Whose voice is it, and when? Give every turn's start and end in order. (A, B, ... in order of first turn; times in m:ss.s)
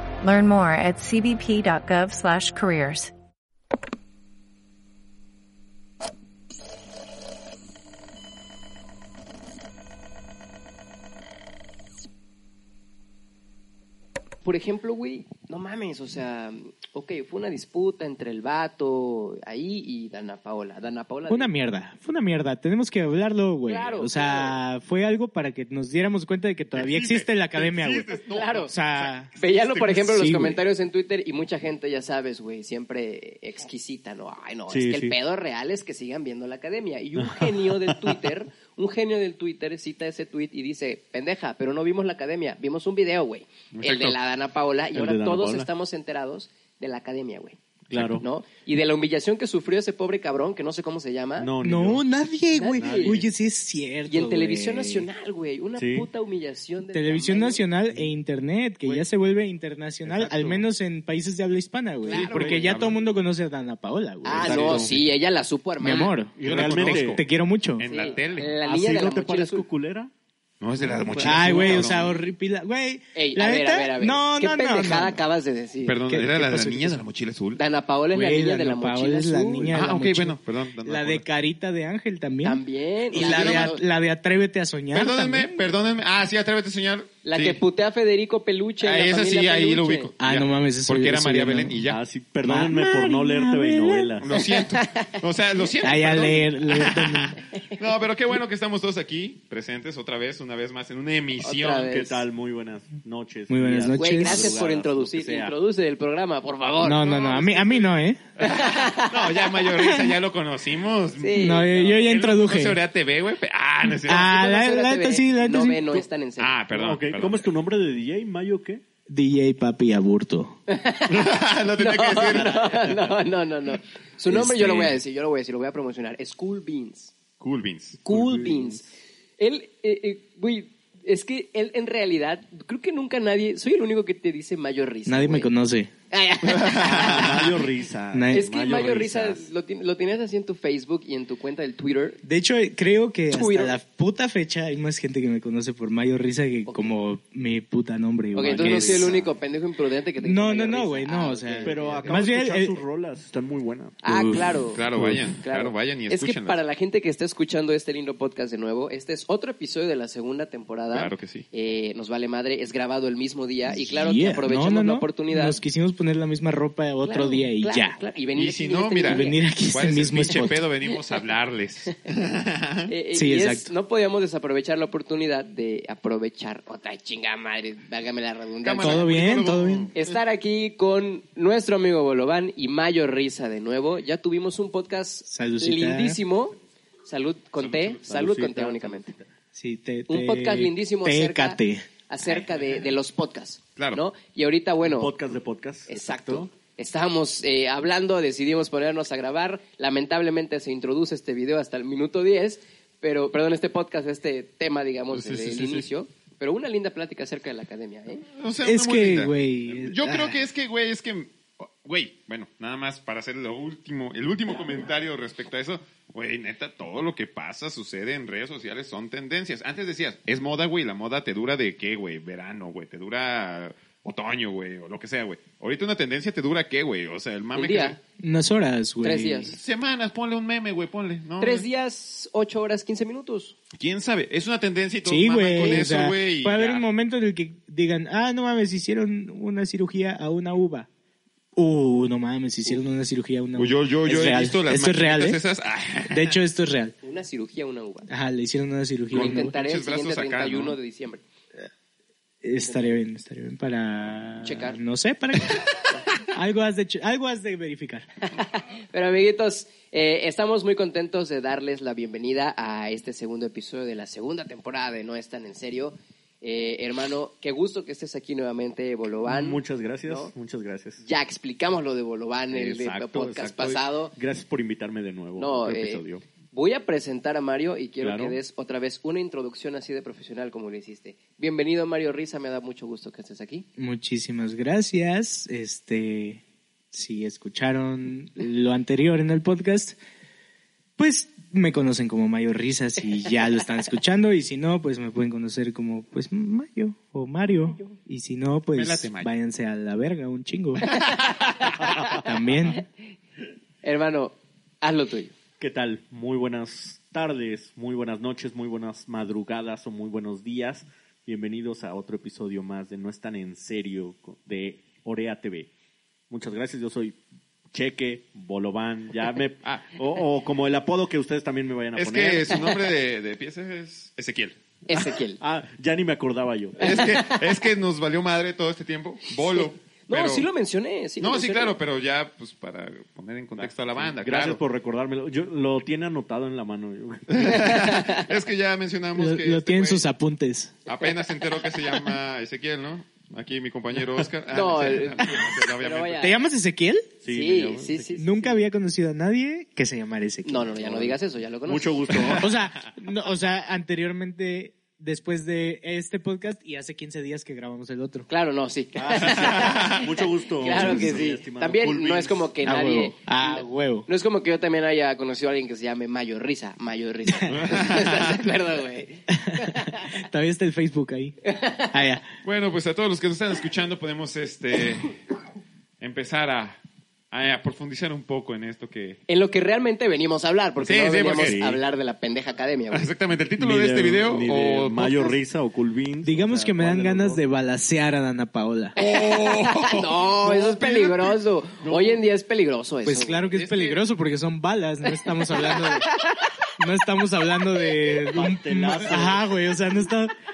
0:00.2-0:03.1 A
0:14.4-0:21.5 B
0:21.3-0:29.3 C
0:23.7-0:24.6 B
0:26.7-0:30.1 D
0:28.3-0:28.7 B
0:29.4-0:47.6 B
0:29.9-0:30.6 C
0:34.7-0:35.2 E
0:37.2-0:38.2 E
0:43.7-0:44.2 D
0:44.9-0:45.7 E
0:47.9-0:48.2 E
0:47.9-0:48.2 D
0:48.2-0:51.5 B
0:51.4-0:52.0 E
0:51.6-0:55.1 C
0:52.5-0:53.2 B
0:52.7-0:53.2 E
0:54.1-0:57.7 B
0:55.8-0:56.1 E
0:56.9-1:04.9 C
1:00.0-1:00.6 E
1:02.1-1:02.7 E
1:02.1-1:03.0 D
1:04.2-1:06.2 B
1:04.3-1:05.0 E
1:05.8-1:07.9 C
1:06.4-1:07.2 E
1:06.4-1:07.2 D
1:07.8-1:08.5 D
1:07.8-1:09.6 B
1:08.6-1:10.1 E
1:10.6-1:12.1 D
1:11.0-1:11.7 E
1:11.2-1:15.2 C
1:13.1-1:16.0 B
1:15.8-1:17.6 D
1:16.1-1:17.0 C
1:17.6-1:19.7 B
1:18.1-1:25.7 C
1:19.7-1:21.2 D
1:22.4-1:23.8 B
1:23.1-1:23.7 D
1:24.9-1:27.6 D
1:27.2-1:30.1 B
1:28.8-1:32.0 D
1:30.2-1:31.8 C
1:31.9-1:34.4 E
1:32.4-1:34.1 C
1:34.2-1:41.9 D
1:34.3-1:35.2 B
1:35.8-1:37.4 C
1:41.4-1:42.2 B
1:41.8-1:45.5 E
1:43.5-1:44.6 C
1:43.9-1:47.2 B
1:46.8-1:48.2 C
1:47.0-1:47.8 D
1:48.4-1:49.5 B
1:48.4-1:54.3 D
1:51.2-1:51.7 B
1:51.3-1:52.8 C
1:53.8-1:55.8 C
1:54.1-1:56.5 B
1:56.4-1:57.5 D
1:56.7-1:58.8 E
1:59.1-2:00.6 C
2:00.7-2:07.1 B
2:01.1-2:02.9 D
2:02.5-2:03.1 E
2:07.4-2:08.0 D
2:08.0-2:08.9 B
2:08.1-2:08.8 E
2:09.4-2:15.5 B
2:15.1-2:15.9 C
2:16.1-2:17.4 B
2:16.4-2:17.6 D
2:16.8-2:19.5 E
2:18.1-2:18.5 C
2:18.3-2:22.2 B
2:22.2-2:29.2 C
2:23.3-2:23.8 B
2:26.6-2:26.9 B
2:28.3-2:32.2 B
2:28.5-2:29.3 E
2:30.2-2:32.8 C
2:31.6-2:34.2 E
2:34.0-2:34.8 B
2:34.1-2:34.5 C
2:34.7-2:36.6 D
2:35.4-2:45.6 B
2:40.9-2:41.4 D
2:43.8-2:48.0 C
2:47.0-2:49.4 B
2:48.3-2:52.9 D
2:49.0-2:50.6 C
2:52.9-2:59.1 B
2:53.1-2:53.7 C
2:58.6-3:00.2 D
2:58.8-2:59.9 C
2:59.9-3:09.1 B
3:05.3-3:06.2 C
3:07.6-3:08.0 D
3:08.0-3:09.3 E
3:09.5-3:11.9 C
3:10.1-3:15.1 B
3:13.8-3:14.0 D
3:14.8-3:16.5 E
3:15.9-3:28.3 B
3:25.1-3:25.8 D
3:28.3-3:48.0 D
3:28.6-3:30.4 C
3:47.5-3:48.0 B
3:48.2-3:49.6 C
3:49.0-3:49.6 B
3:49.5-3:51.6 D
3:51.4-3:53.5 B
3:53.7-3:56.8 D
3:55.0-4:00.9 C
3:55.6-3:55.9 B
4:01.5-4:05.4 C
4:03.6-4:06.4 D
4:06.0-4:06.9 C
4:07.0-4:08.1 B
4:08.1-4:09.5 C
4:09.1-4:10.8 D
4:09.1-4:11.2 B
4:12.4-4:15.7 C
4:12.6-4:13.0 B
4:14.4-4:14.8 B
4:16.2-4:18.0 C
4:18.3-4:30.3 B
4:29.2-4:31.0 E
4:31.0-4:34.1 B
4:32.5-4:36.2 E
4:35.4-4:43.6 B
4:38.0-4:38.4 E
4:43.8-4:46.4 C
4:46.9-4:50.0 C
4:51.0-5:01.0 C
4:58.7-4:59.3 D
5:00.9-5:02.2 B
5:02.0-5:02.8 C
5:03.8-5:05.3 B
5:05.6-5:15.7 E
5:16.3-5:17.2 E
5:17.7-5:22.8 E
5:19.6-5:20.1 D
5:22.0-5:24.6 D
5:24.8-5:25.4 B
5:25.4-5:27.0 E
5:26.8-5:30.5 D
5:26.8-5:27.4 B
5:29.5-5:31.8 B
5:31.2-5:34.6 D
5:33.5-5:37.7 E
5:37.3-5:40.0 D
5:37.4-5:38.3 B
5:39.1-5:40.8 C
5:40.9-5:46.3 D
5:41.0-5:41.8 B
5:44.5-5:46.3 B
5:46.2-5:47.1 C
5:47.2-5:48.1 E
5:47.3-5:48.6 B
5:48.2-5:50.7 C
5:50.4-5:52.3 B
5:50.8-5:52.5 E
5:52.1-5:52.5 D
5:52.4-5:58.3 C
5:58.3-6:10.2 B
5:59.0-6:02.5 E
5:59.4-6:00.0 D
6:00.7-6:01.2 C
6:02.6-6:04.0 C
6:07.5-6:08.4 D
6:09.3-6:11.4 C
6:11.4-6:11.9 B
6:11.9-6:12.3 C
6:12.4-6:15.2 D
6:16.0-6:16.8 D
6:17.3-6:19.2 D
6:19.3-6:23.1 B
6:20.8-6:21.6 D
6:21.2-6:21.8 E
6:22.9-6:25.4 D
6:23.6-6:27.4 E
6:26.2-6:29.0 C
6:29.0-6:33.4 B
6:29.0-6:31.3 D
6:31.8-6:32.2 E
6:33.0-6:36.1 C
6:33.5-6:34.0 D
6:35.1-6:36.4 B
6:36.8-6:40.3 C
6:38.3-6:39.8 E